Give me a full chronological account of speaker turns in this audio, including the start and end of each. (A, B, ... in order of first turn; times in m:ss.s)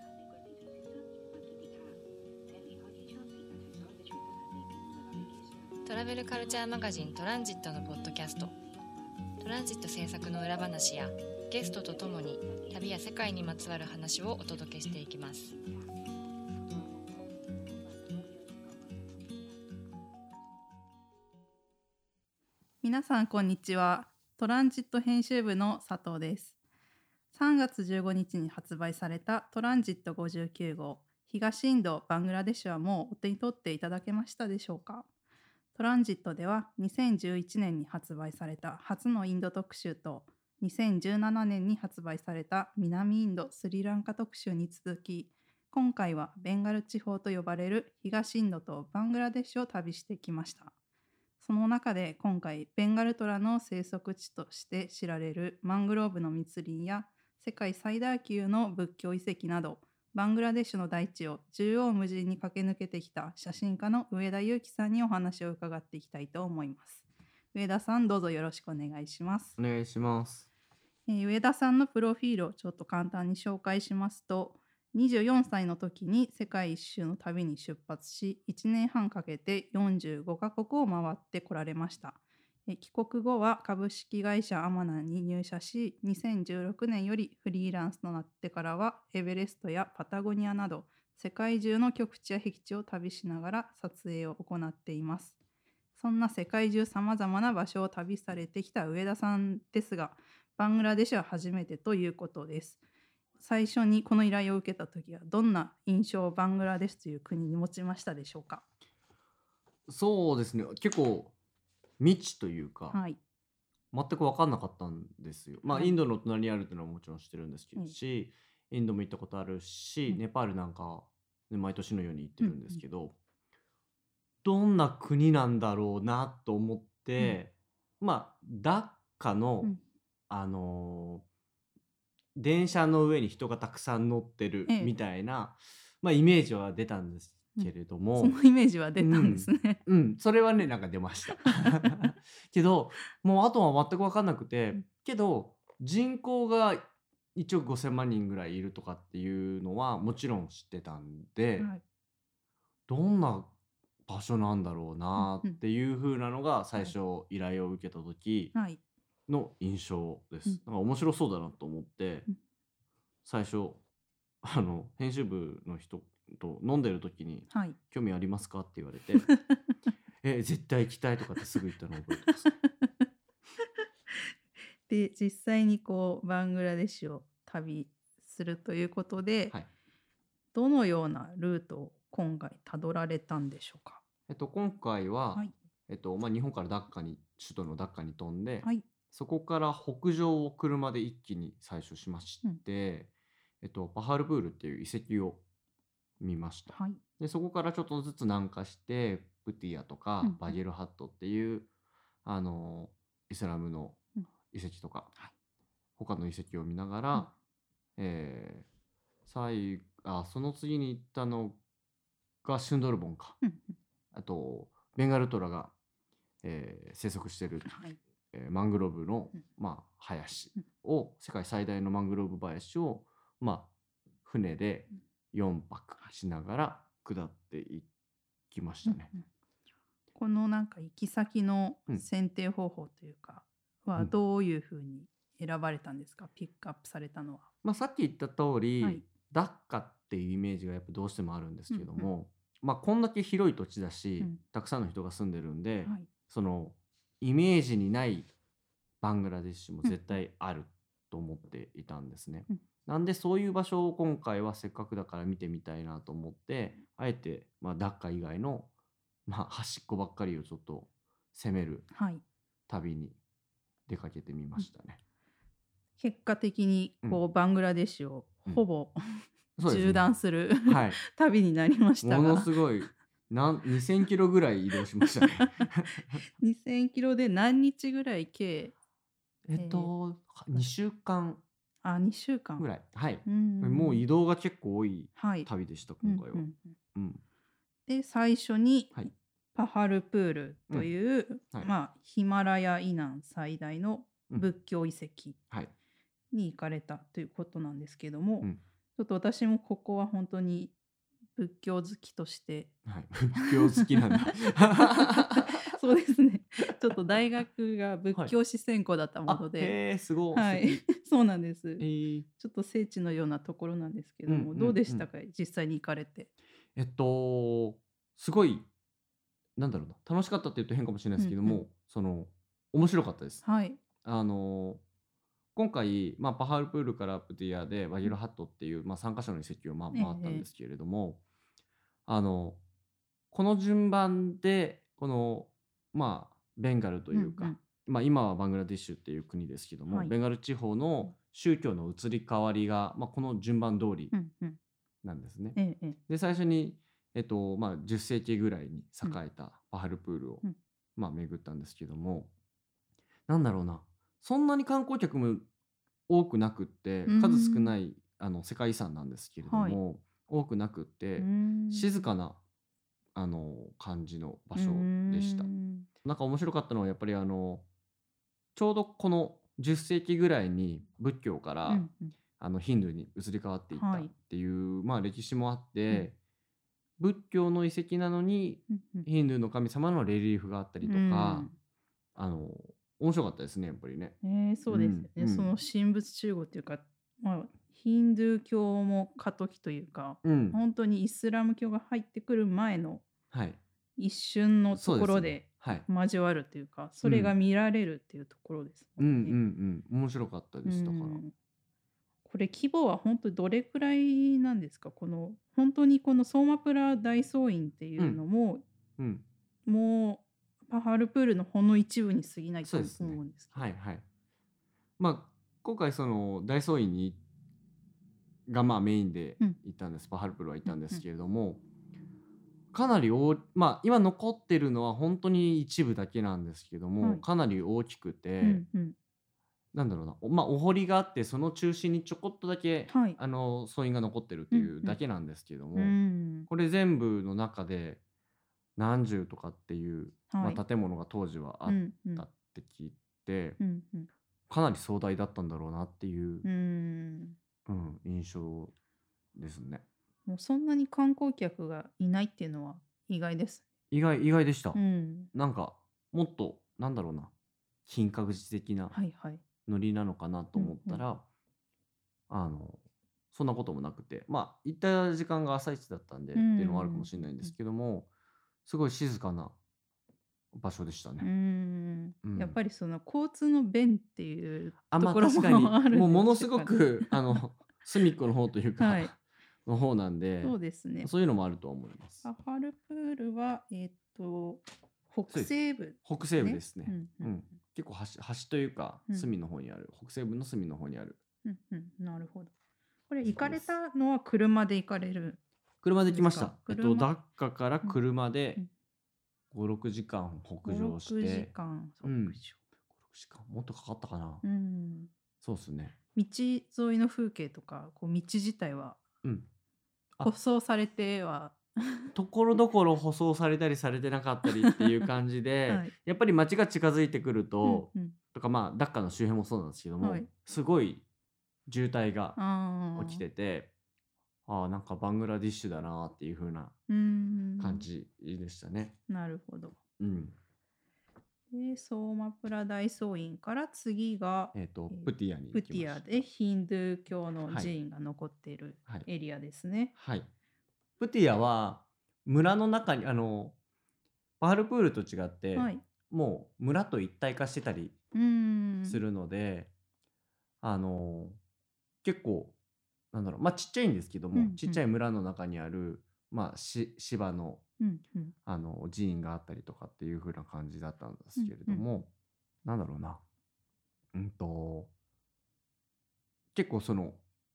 0:05.8-0:08.6 A
0:09.4-0:15.6 A
0:22.8-0:26.6 B
0:27.3-0:35.1 B
0:35.8-0:50.7 B
0:51.4-1:09.6 B
1:09.6-1:10.5 C
1:11.1-1:35.4 B
1:36.0-1:42.8 B
1:43.4-1:48.6 B
1:49.9-1:51.3 C
1:52.0-1:53.0 C
1:52.9-1:53.2 B
1:53.9-2:03.2 C
1:55.7-1:56.0 B
2:02.4-2:02.8 B
2:04.4-2:09.7 C
2:10.3-2:11.2 C
2:12.4-2:18.4 C
2:14.7-2:14.9 B
2:17.6-2:19.8 B
2:19.0-2:31.7 C
2:21.5-2:21.9 B
2:32.9-2:33.5 C
2:34.1-2:38.5 C
2:35.2-2:35.6 B
2:38.5-2:38.8 B
2:39.3-2:42.3 C
2:43.2-2:43.8 C
2:44.4-2:49.3 C
2:47.5-2:47.8 B
2:50.2-2:52.5 C
2:52.4-2:52.9 B
2:54.9-2:59.6 B
3:00.5-3:04.0 B
3:04.3-3:13.1 C
3:13.6-3:15.4 C
3:16.2-3:21.7 C
3:16.7-3:17.0 B
3:20.2-3:20.6 B
3:22.2-3:24.0 C
3:24.5-3:25.1 C
3:26.0-3:27.3 C
3:28.0-3:28.7 C
3:29.3-3:31.6 C
3:32.4-3:33.4 C
3:33.4-3:33.8 B
3:34.1-3:35.7 C
3:36.4-3:37.7 C
3:37.7-3:38.0 B
3:38.3-3:43.7 C
3:44.2-3:47.9 C
3:48.5-3:49.1 C
3:48.8-3:49.3 B
3:50.2-3:57.5 B
3:57.6-4:08.3 C
4:01.7-4:02.1 B
4:09.0-4:18.7 C
4:09.8-4:10.1 B
4:19.3-4:21.9 C
4:21.9-4:22.2 B
4:22.7-4:23.2 C
4:23.9-4:25.0 C
4:26.0-4:32.5 B
4:29.6-4:30.1 C
4:30.6-4:31.0 C
4:32.0-4:36.2 C
4:35.1-4:35.7 B
4:36.4-4:38.8 B
4:39.4-4:41.4 C
4:39.6-4:39.9 B
4:41.8-4:42.7 B
4:42.6-4:47.2 C
4:43.2-4:44.0 B
4:45.2-4:45.5 B
4:46.0-4:46.8 B
4:47.9-4:55.4 B
4:56.3-5:00.7 B
5:01.4-5:02.8 B
5:02.9-5:05.7 C
5:03.3-5:09.8 B
5:09.3-5:10.8 C
5:10.3-5:16.3 B
5:11.8-5:12.3 C
5:14.3-5:15.0 C
5:16.8-5:18.7 C
5:19.6-5:23.4 C
5:21.2-5:21.6 B
5:23.4-5:23.8 B
5:24.0-5:24.8 C
5:25.6-5:31.2 C
5:29.9-5:30.5 B
5:32.1-5:32.6 C
5:33.3-5:44.1 C
5:37.1-5:37.6 B
5:39.9-5:40.1 B
5:44.1-5:44.6 B
5:45.0-5:50.4 C
5:45.6-5:46.0 B
5:51.0-5:52.3 C
5:53.3-5:55.5 C
5:56.1-6:02.4 C
5:57.1-5:57.8 B
5:59.4-5:59.8 B
6:01.2-6:02.1 B
6:03.2-6:05.5 C
6:04.6-6:05.9 B
6:06.0-6:07.6 C
6:08.6-6:11.9 C
6:11.7-6:12.1 B
6:12.4-6:16.2 C
6:13.8-6:14.1 B
6:17.0-6:21.5 C
6:18.7-6:19.1 B
6:20.8-6:21.6 B
6:22.2-6:24.2 C
6:24.2-6:33.1 B
6:24.7-6:25.5 C
6:30.2-6:30.6 C
6:33.3-6:33.6 C
6:34.0-6:39.4 B
6:34.7-6:35.9 C
6:37.0-6:37.3 C
6:39.0-6:41.2 C
6:40.6-6:41.3 B
6:42.2-6:48.6 B
6:49.0-6:49.2 C
6:49.7-6:53.7 B
6:52.6-6:54.0 C
6:55.0-6:57.2 C
6:58.5-7:01.6 C
7:00.7-7:01.0 B
7:02.7-7:08.6 C
7:08.4-7:09.0 B
7:09.7-7:16.0 C
7:12.9-7:13.2 B
7:14.5-7:15.0 B
7:15.8-7:16.5 B
7:16.5-7:18.0 C
7:18.8-7:23.6 C
7:20.3-7:20.6 B
7:21.7-7:22.2 B
7:23.6-7:24.1 B
7:24.5-7:26.5 C
7:26.4-7:27.4 B
7:27.7-7:28.7 C
7:29.4-7:29.8 C
7:30.3-7:33.6 B
7:33.9-7:34.8 C
7:34.7-7:35.3 B
7:35.3-7:37.3 C
7:37.9-7:39.0 C
7:38.9-7:39.4 B
7:39.7-7:41.2 C
7:40.6-7:41.0 B
7:42.3-7:42.8 C
7:43.3-7:48.1 C
7:46.4-7:47.5 B
7:48.7-7:49.6 C
7:50.5-7:51.3 C
7:51.2-7:57.4 B
7:52.2-7:52.6 C
7:54.9-8:02.2 C
7:58.8-7:59.1 B
8:00.4-8:01.1 B
8:02.2-8:07.6 B
8:05.3-8:11.2 C
8:11.4-8:12.5 B
8:13.1-8:15.4 B
8:13.2-8:13.7 C
8:15.8-8:18.6 C
8:16.1-8:17.1 B
8:19.5-8:22.4 C
8:20.6-8:22.6 B
8:23.1-8:24.4 C
8:24.4-8:25.1 B
8:25.4-8:26.0 C
8:26.2-8:29.0 B
8:30.2-8:32.1 B
8:32.2-8:41.0 C
8:34.5-8:35.0 B
8:35.7-8:35.9 B
8:37.6-8:38.2 B
8:40.0-8:40.3 B
8:41.7-8:42.4 C
8:42.4-8:43.2 B
8:43.0-8:43.7 C
8:44.5-8:46.7 C
8:46.9-8:47.9 B
8:47.6-8:49.0 C
8:49.1-8:49.8 B
8:50.0-8:50.4 C
8:51.5-8:59.9 B
8:54.5-8:56.2 C
9:00.0-9:00.3 C
9:01.0-9:03.6 C
9:04.4-9:08.0 C
9:05.6-9:05.8 B
9:08.1-9:09.0 B
9:08.9-9:09.7 C
9:10.6-9:11.4 C
9:12.0-9:12.6 C
9:13.1-9:17.6 C
9:14.4-9:14.8 B
9:17.8-9:18.4 B
9:18.5-9:22.1 C
9:21.4-9:21.9 B
9:22.6-9:23.2 C
9:24.1-9:24.9 C
9:26.6-9:27.2 C